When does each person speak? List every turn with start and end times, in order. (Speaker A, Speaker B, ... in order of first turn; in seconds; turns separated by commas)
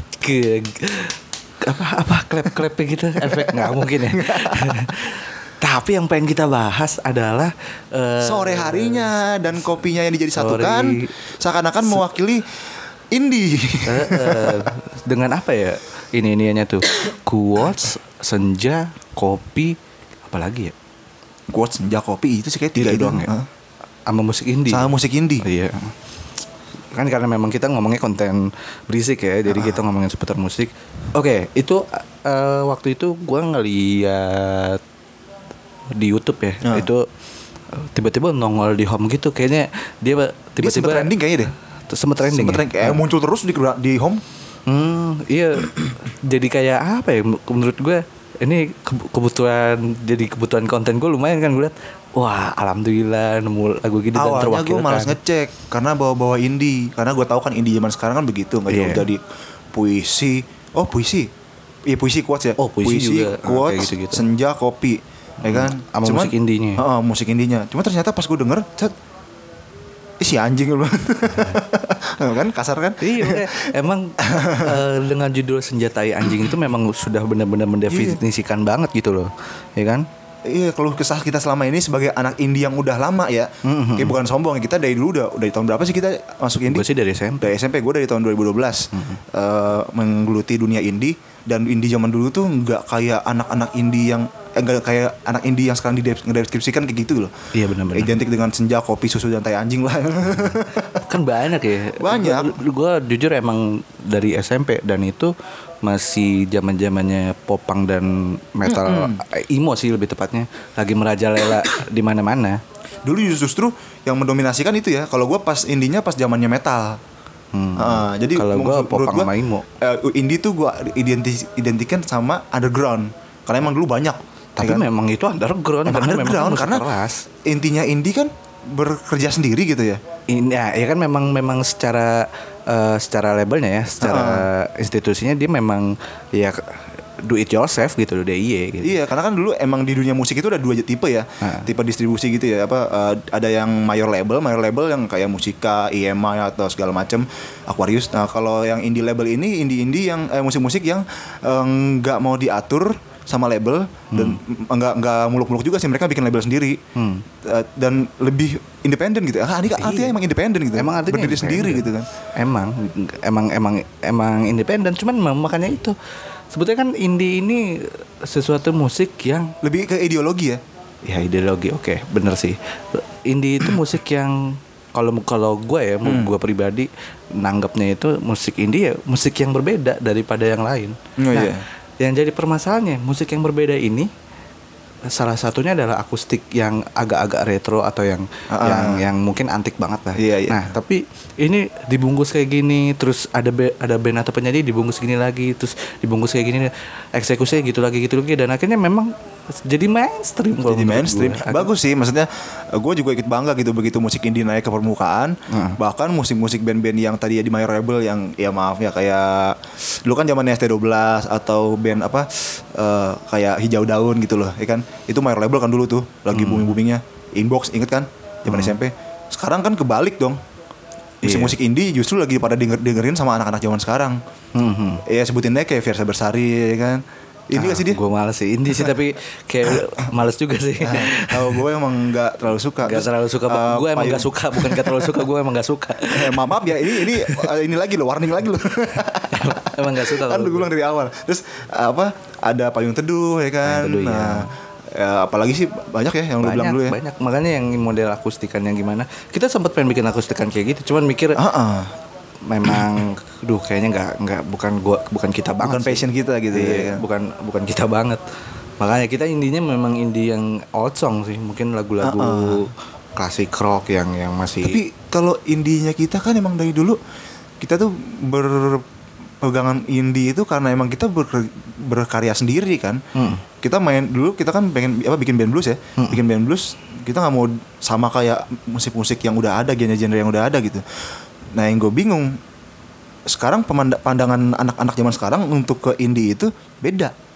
Speaker A: 0.2-9.1, Speaker B: 3.2-4.9, Speaker B: 8.2-14.7, Speaker A: 10.3-11.1, Speaker A: 13.8-20.7, Speaker B: 21.5-23.5, Speaker A: 22.7-23.3, Speaker A: 24.1-24.9, Speaker B: 24.7-25.4, Speaker A: 25.4-25.9, Speaker A: 26.9-34.8, Speaker B: 29.5-29.8, Speaker A: 35.9-37.0, Speaker A: 37.7-41.2, Speaker B: 40.6-41.5, Speaker A: 41.9-43.0, Speaker B: 42.2-44.2, Speaker A: 44.7-55.2, Speaker B: 54.1-61.3, Speaker A: 58.7-59.0, Speaker B: 61.9-68.9, Speaker A: 62.6-64.2, Speaker A: 65.4-66.8, Speaker B: 70.2-74.8, Speaker A: 73.0-80.0, Speaker B: 76.2-76.5, Speaker B: 77.9-78.2, Speaker B: 80.5-86.8, Speaker A: 83.6-84.2, Speaker A: 86.7-87.5, Speaker B: 87.4-101.0, Speaker A: 88.9-89.2, Speaker A: 97.5-98.2, Speaker A: 101.1-112.6, Speaker B: 102.0-102.6, Speaker B: 108.7-109.2, Speaker B: 113.0-117.0, Speaker A: 117.5-119.6, Speaker B: 117.8-124.8, Speaker A: 124.6-127.2, Speaker B: 125.8-126.9, Speaker B: 127.4-130.0, Speaker A: 130.3-139.0, Speaker B: 134.0-134.5, Speaker B: 138.8-156.8, Speaker A: 141.4-141.7, Speaker A: 154.1-154.4, Speaker A: 156.9-157.2, Speaker B: 157.4-162.1, Speaker A: 159.8-160.1, Speaker A: 160.8-166.0, Speaker A: 166.5-169.5, Speaker B: 169.6-170.6, Speaker A: 171.1-184.1, Speaker B: 176.0-176.3, Speaker B: 181.2-181.6, Speaker A: 185.1-201.7, Speaker B: 188.5-189.0, Speaker B: 190.2-190.7, Speaker B: 200.6-220.4, Speaker A: 205.5-205.8, Speaker A: 216.3-216.7, Speaker A: 218.5-218.8, Speaker A: 221.2-221.6, Speaker B: 221.2-224.2, Speaker A: 224.5-225.0, Speaker B: 225.0-228.0, Speaker A: 227.5-231.6, Speaker B: 230.8-235.2, Speaker A: 232.8-237.5, Speaker B: 236.1-247.0, Speaker A: 239.3-240.7, Speaker A: 243.6-244.5, Speaker A: 246.4-251.4, Speaker B: 251.4-251.9, Speaker A: 252.4-258.2, Speaker B: 255.6-257.0, Speaker A: 258.8-264.8, Speaker B: 262.0-262.6, Speaker B: 264.6-267.0, Speaker B: 267.6-268.8, Speaker B: 269.4-273.0, Speaker A: 273.1-273.4, Speaker B: 273.6-280.8, Speaker B: 281.6-282.4, Speaker B: 283.3-287.1